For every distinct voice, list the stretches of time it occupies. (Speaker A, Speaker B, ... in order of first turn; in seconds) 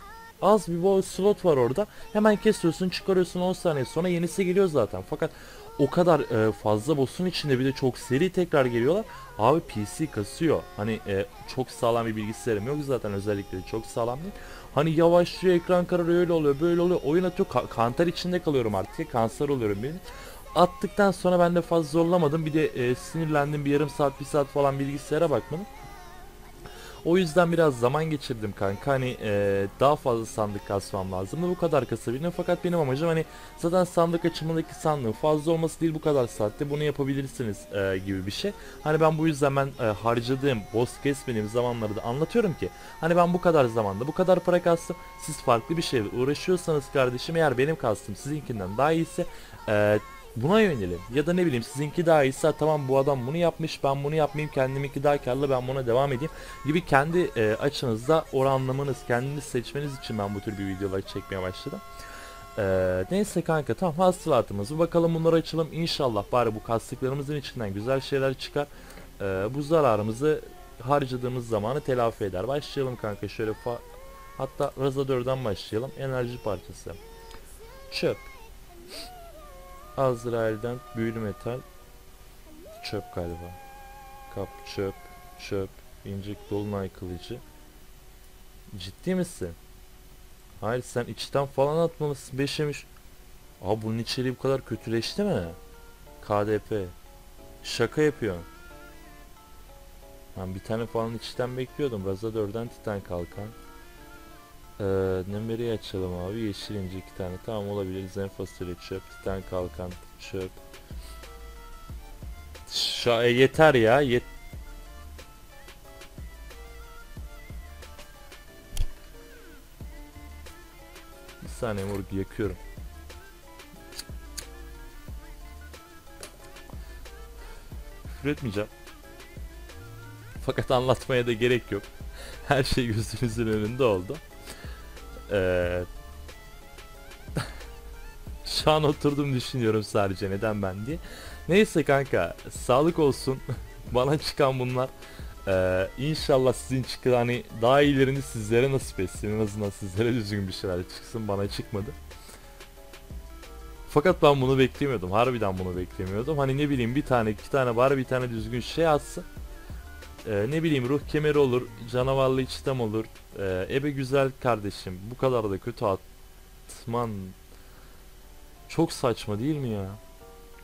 Speaker A: 0.4-20.0, 20.5-25.7, 27.0-61.8, 62.5-73.8, 74.3-77.0, 77.9-78.3, 80.0-81.6, 82.8-83.6, 84.3-87.4, 88.7-89.6, 90.6-92.9, 93.6-95.6, 96.2-97.0, 97.6-98.5, 100.3-103.5, 104.8-110.6, 112.7-114.3, 121.4-122.6, 128.1-128.7, 130.4-131.9, 132.4-134.2, 135.3-135.9, 138.4-144.9, 145.4-151.9, 153.9-159.3, 160.2-166.0, 166.7-167.4, 168.7-170.0